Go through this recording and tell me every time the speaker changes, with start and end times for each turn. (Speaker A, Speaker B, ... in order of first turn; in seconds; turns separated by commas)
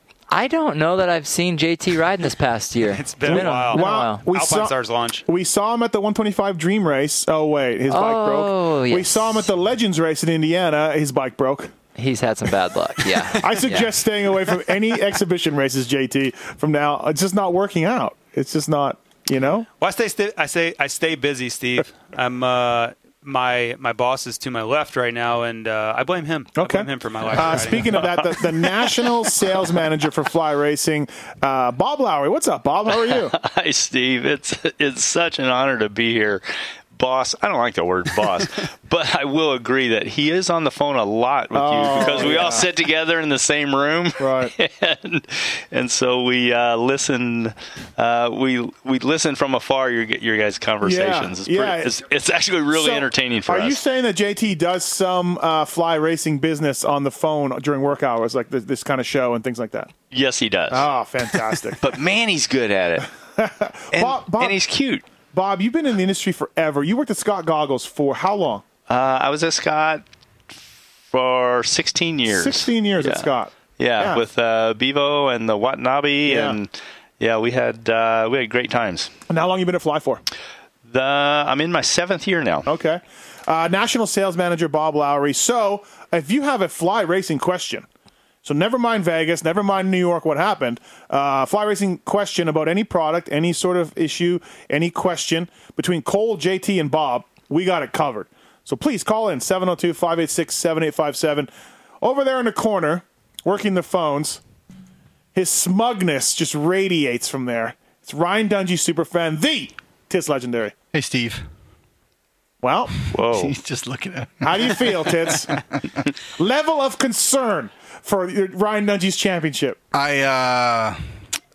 Speaker A: 0.3-4.2, Speaker B: 2.9-5.2, Speaker C: 3.3-4.7, Speaker C: 5.3-11.7, Speaker A: 7.9-9.5, Speaker A: 11.9-13.9, Speaker C: 13.3-19.7, Speaker B: 19.8-28.0, Speaker C: 26.6-33.3, Speaker D: 33.1-36.4, Speaker D: 36.9-53.8, Speaker C: 41.5-42.7, Speaker C: 44.2-44.5, Speaker C: 50.8-51.9, Speaker C: 52.7-59.9, Speaker D: 60.1-60.9, Speaker C: 60.7-61.8, Speaker D: 61.8-63.1, Speaker C: 63.4-64.6, Speaker D: 63.9-65.0, Speaker C: 65.3-68.6, Speaker D: 68.9-70.0, Speaker D: 71.1-73.2, Speaker C: 72.3-74.2, Speaker D: 73.8-79.1, Speaker C: 76.2-76.6, Speaker C: 79.3-80.2, Speaker D: 80.8-82.7, Speaker C: 82.7-87.9, Speaker C: 88.4-101.5, Speaker C: 102.0-104.4, Speaker C: 105.3-110.7, Speaker E: 110.9-111.4, Speaker C: 112.6-112.9, Speaker D: 113.1-113.5, Speaker E: 113.3-115.6, Speaker C: 114.4-115.5, Speaker C: 116.4-119.8, Speaker E: 119.9-121.0